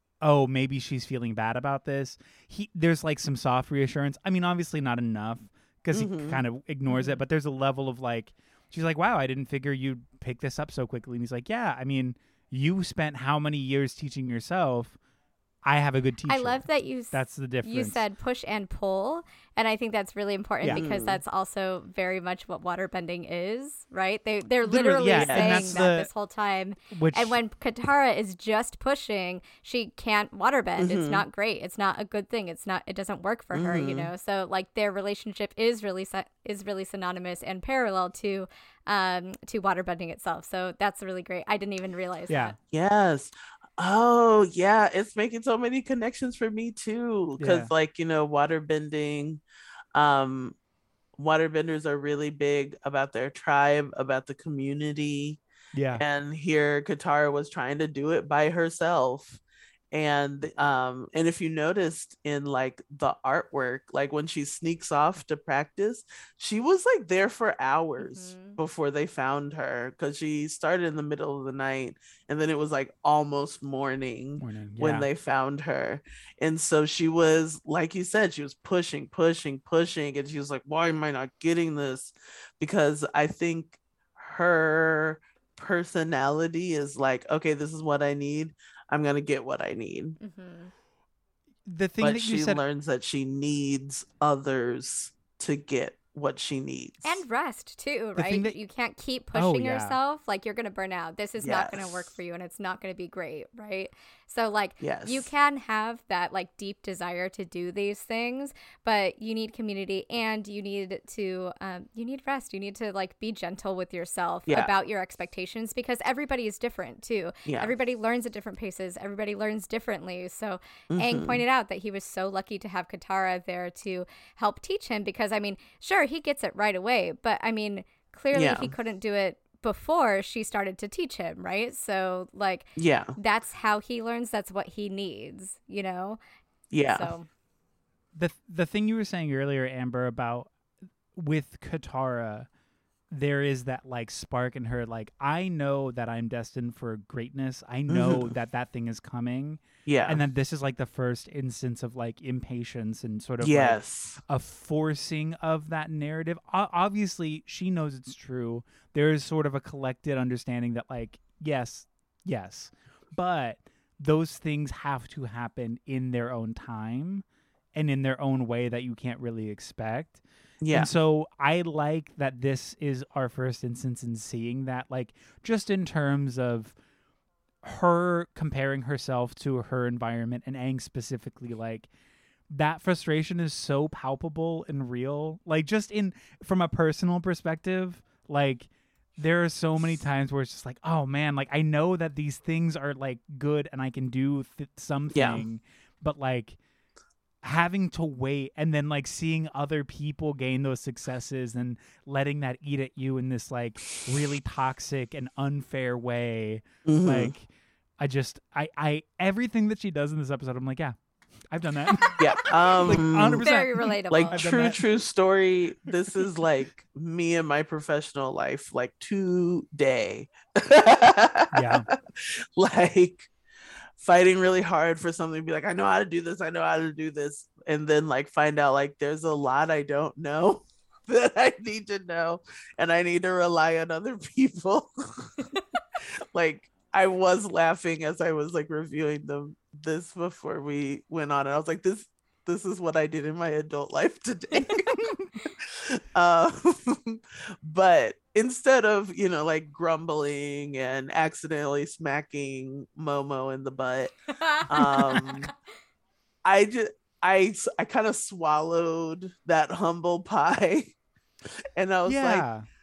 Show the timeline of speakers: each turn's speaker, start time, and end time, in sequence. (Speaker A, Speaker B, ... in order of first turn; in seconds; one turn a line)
Speaker A: 0.2-15.0
Speaker B: 5.9-6.4
Speaker C: 6.9-7.2
Speaker A: 15.6-18.0
Speaker C: 16.3-42.5
Speaker B: 20.7-21.2
Speaker A: 24.6-26.1
Speaker B: 25.1-25.8
Speaker A: 26.9-27.4
Speaker B: 30.8-31.2
Speaker B: 33.5-34.1
Speaker A: 42.3-42.5
Speaker B: 42.7-49.4
Speaker A: 47.4-47.7
Speaker B: 49.9-50.5
Speaker B: 51.2-55.4
Speaker A: 55.7-56.0
Speaker B: 55.9-59.4
Speaker B: 59.9-90.2
Speaker C: 68.0-68.6
Speaker A: 74.4-75.1
Speaker C: 90.2-90.7
Speaker A: 91.7-92.6
Speaker B: 92.0-97.2
Speaker C: 97.0-136.2
Speaker A: 98.2-98.5
Speaker A: 99.3-100.0
Speaker B: 101.4-102.1
Speaker B: 104.8-105.3
Speaker B: 117.5-117.7
Speaker B: 120.9-121.4
Speaker B: 128.3-128.7
Speaker B: 132.8-133.2
Speaker B: 136.7-137.1
Speaker C: 136.9-137.3
Speaker A: 138.1-140.5
Speaker A: 141.1-142.5
Speaker A: 143.1-170.2
Speaker B: 147.9-148.3
Speaker B: 149.8-150.2
Speaker B: 153.4-154.2
Speaker B: 170.6-170.9
Speaker A: 170.7-176.8
Speaker A: 177.6-181.9
Speaker A: 182.5-196.6
Speaker B: 195.1-195.4
Speaker A: 197.4-207.5
Speaker B: 206.8-207.3
Speaker A: 208.0-211.0
Speaker A: 211.5-214.8
Speaker B: 212.2-213.5
Speaker C: 213.4-214.5
Speaker B: 214.1-223.3
Speaker A: 221.5-221.9
Speaker B: 224.0-235.3
Speaker B: 236.3-245.0
Speaker A: 245.0-245.3
Speaker B: 245.7-254.1
Speaker C: 254.3-255.5
Speaker B: 254.6-255.5
Speaker B: 256.4-260.9
Speaker B: 261.8-262.4
Speaker A: 262.1-262.6